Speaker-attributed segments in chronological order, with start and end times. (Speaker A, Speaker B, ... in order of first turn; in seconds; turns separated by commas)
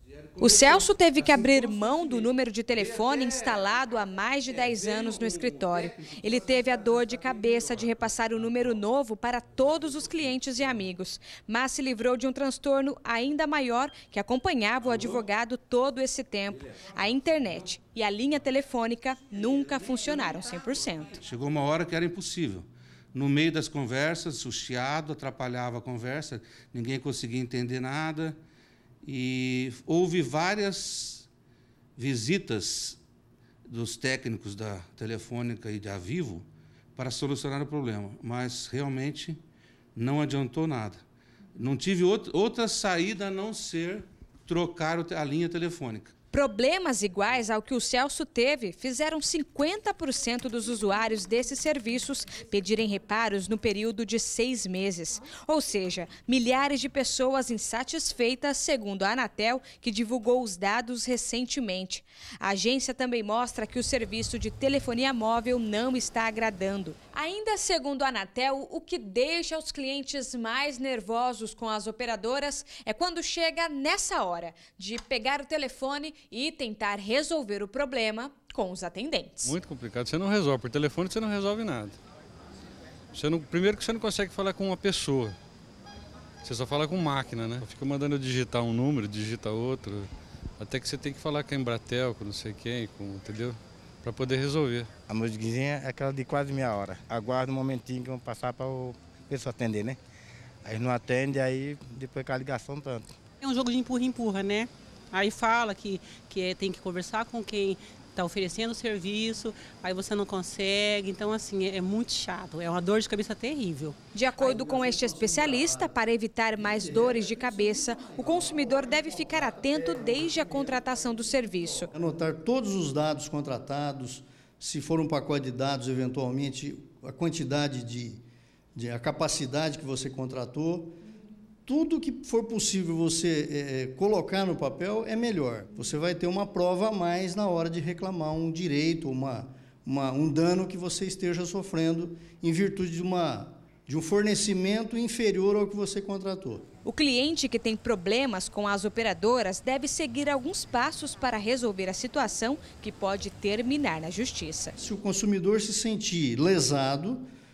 Speaker A: 0.2-2.1, Speaker B: 0.4-21.2, Speaker A: 2.8-3.4, Speaker A: 4.5-6.8, Speaker A: 21.2-28.4, Speaker A: 29.0-31.3, Speaker A: 32.0-33.0, Speaker A: 33.7-39.4, Speaker A: 40.0-41.0, Speaker A: 41.5-46.1, Speaker B: 46.3-79.5, Speaker C: 79.4-82.0, Speaker C: 83.1-85.3, Speaker C: 86.4-94.9, Speaker D: 95.1-100.0, Speaker D: 100.6-103.2, Speaker E: 103.4-114.6, Speaker B: 114.1-121.9, Speaker F: 121.9-128.2, Speaker F: 128.7-130.9, Speaker F: 131.7-146.6, Speaker B: 146.8-154.7, Speaker F: 154.8-157.2